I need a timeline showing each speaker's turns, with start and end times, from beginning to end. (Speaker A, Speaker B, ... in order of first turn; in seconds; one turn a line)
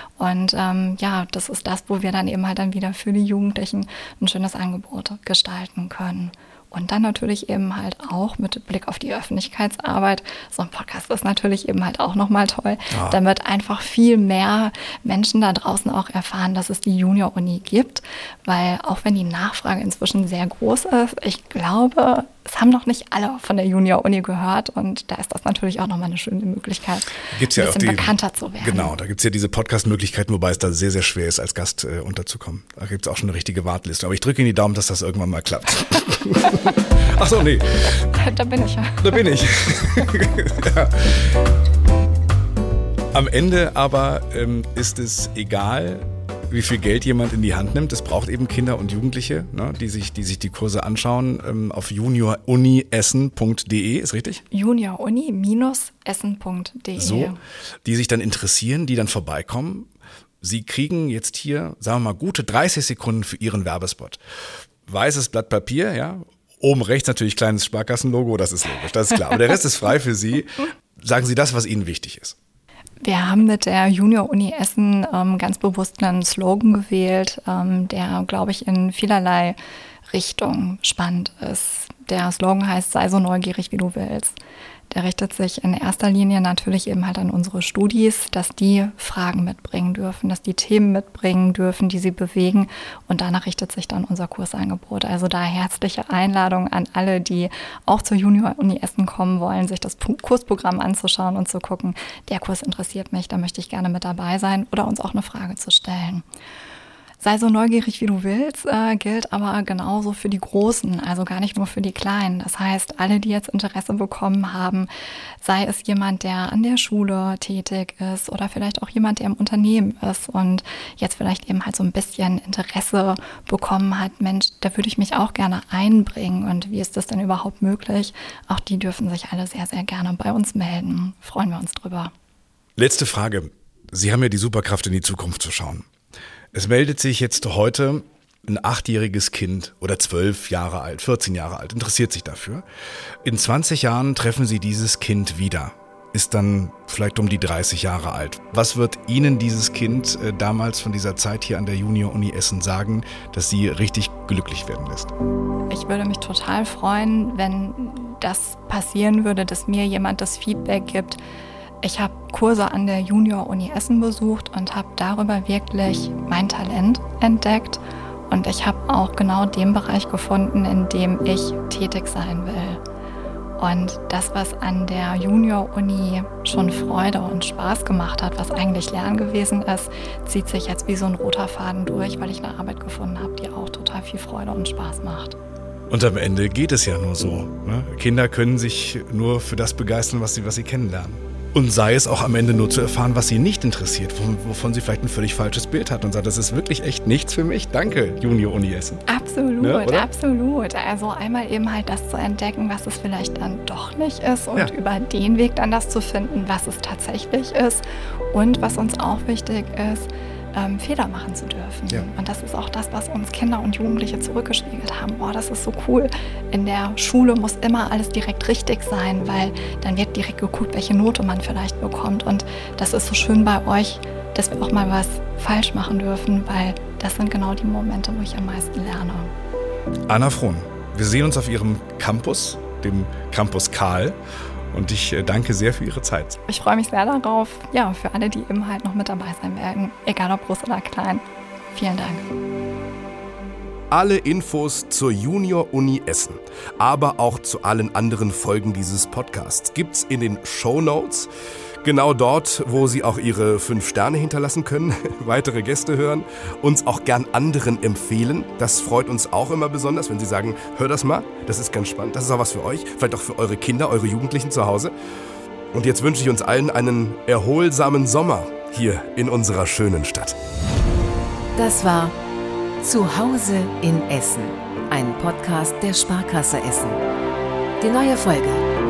Speaker A: 0.2-28.9
Speaker B: 12.9-13.2
Speaker B: 27.3-38.1
Speaker A: 38.1-39.2
Speaker B: 39.0-41.3
Speaker B: 43.1-54.4
Speaker A: 54.5-57.4
Speaker B: 57.0-59.9
Speaker B: 60.4-64.2
Speaker B: 64.8-72.3
Speaker A: 73.0-79.6
Speaker A: 80.1-84.3
Speaker A: 84.9-106.2
Speaker A: 107.2-114.9
Speaker A: 115.4-132.1
Speaker B: 132.8-135.9
Speaker B: 136.5-142.6
Speaker B: 143.2-155.1
Speaker A: 155.7-161.2
Speaker A: 161.8-172.8
Speaker A: 173.6-185.4
Speaker B: 185.9-199.0
Speaker A: 199.1-229.3
Speaker B: 199.6-200.1
Speaker B: 230.1-234.2
Speaker B: 234.7-236.4
Speaker A: 236.5-242.3
Speaker C: 243.9-251.3
Speaker C: 251.8-264.9
Speaker C: 265.7-270.4
Speaker D: 271.5-272.1
Speaker D: 272.8-277.0
Speaker D: 277.8-278.6